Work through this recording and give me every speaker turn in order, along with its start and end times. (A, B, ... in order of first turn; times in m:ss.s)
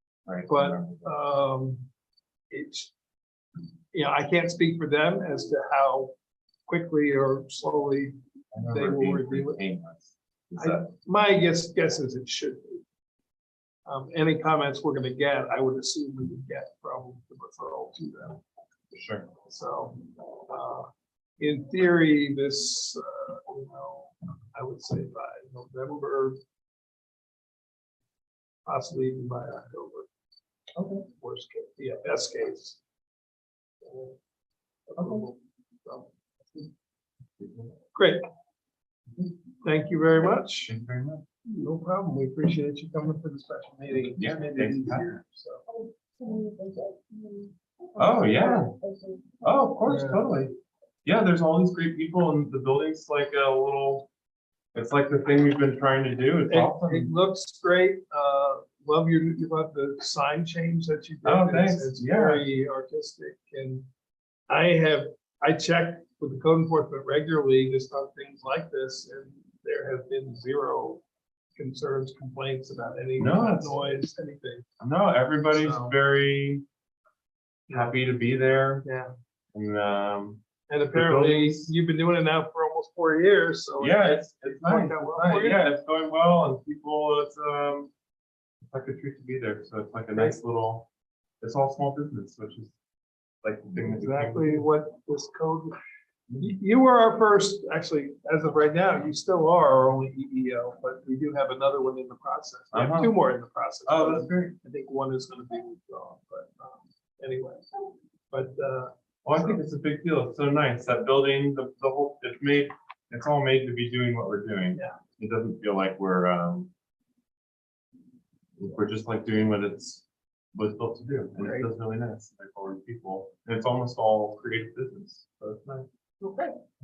0:00.3-0:01.1 A
0:00.5-0:01.8 B
0:02.5-0:02.9 B
0:03.9-0:06.1 B
0:06.7-0:08.2 B
0:08.5-0:10.9 A
0:08.7-0:09.6 B
0:10.6-0:12.8 B
0:13.8-0:18.4 B
0:18.9-0:19.3 A
0:19.5-0:26.4 B
0:28.7-0:30.1 B
0:30.8-0:31.0 A
0:31.2-0:32.8 B
0:33.8-0:34.1 B
0:34.9-0:36.7 B
0:35.0-0:35.2 A
0:37.4-0:37.7 A
0:37.9-0:38.2 B
0:39.6-0:40.7 B
0:40.7-0:41.2 A
0:41.4-0:45.6 B
0:44.2-0:45.2 A
0:45.7-0:49.4 C
0:48.0-0:48.7 A
0:49.4-0:50.5 A
0:49.8-0:50.3 B
0:51.0-0:54.1 A
0:54.7-0:57.1 A
0:56.5-1:03.9 B
1:01.2-1:02.4 A
1:04.5-1:11.0 B
1:11.6-1:14.7 B
1:13.2-1:13.8 A
1:14.8-1:16.6 A
1:15.6-1:16.0 B
1:17.7-1:18.8 A
1:17.7-1:18.0 B
1:18.8-1:19.1 B
1:19.5-1:21.7 A
1:20.7-1:25.6 B
1:23.8-1:27.9 A
1:28.6-1:30.9 A
1:31.4-1:32.8 A
1:33.4-1:34.6 A
1:33.8-1:35.8 B
1:36.4-1:47.6 B
1:42.7-1:43.2 A
1:43.9-1:44.6 A
1:48.3-1:49.6 B
1:49.2-1:56.7 A
1:58.6-2:05.9 A
2:01.4-2:01.7 B
2:06.2-2:06.6 C